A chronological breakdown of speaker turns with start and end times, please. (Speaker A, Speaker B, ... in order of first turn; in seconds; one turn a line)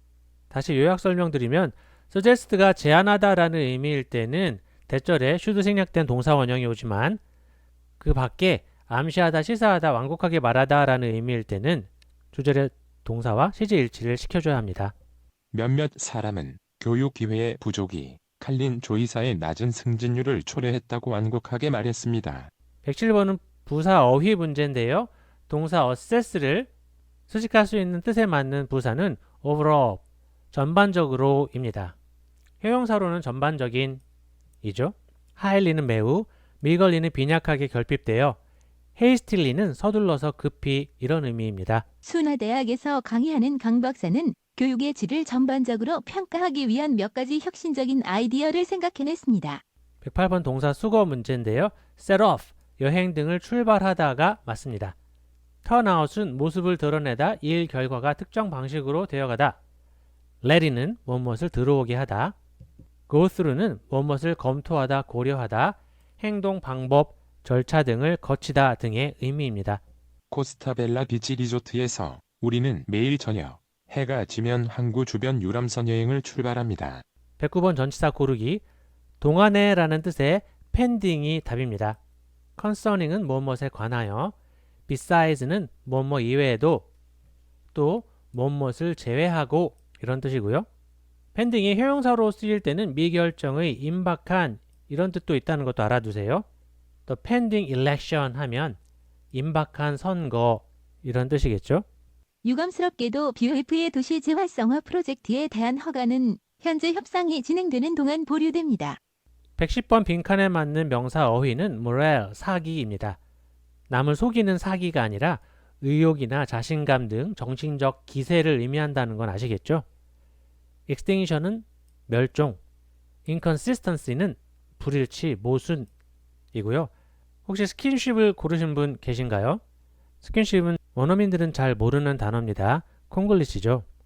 Speaker A: 0.5-7.2
Speaker A: 8.0-14.9
Speaker B: 15.5-22.5
Speaker A: 22.8-26.7
Speaker A: 27.3-31.9
Speaker A: 32.6-34.0
Speaker A: 34.6-38.4
Speaker A: 39.0-41.8
Speaker C: 42.0-49.6
Speaker A: 50.0-55.0
Speaker A: 55.6-59.6
Speaker A: 60.4-62.3
Speaker A: 63.1-69.8
Speaker B: 70.3-77.0
Speaker A: 77.4-78.6
Speaker A: 79.2-82.0
Speaker A: 82.6-84.3
Speaker A: 84.9-86.9
Speaker A: 87.7-90.7
Speaker A: 91.3-96.4
Speaker A: 97.1-98.8
Speaker A: 99.3-101.8
Speaker C: 102.4-109.0
Speaker A: 109.6-113.2
Speaker A: 113.9-119.8
Speaker A: 120.9-122.6
Speaker A: 123.2-125.9
Speaker A: 126.5-126.9
Speaker A: 127.5-129.6
Speaker A: 130.2-133.8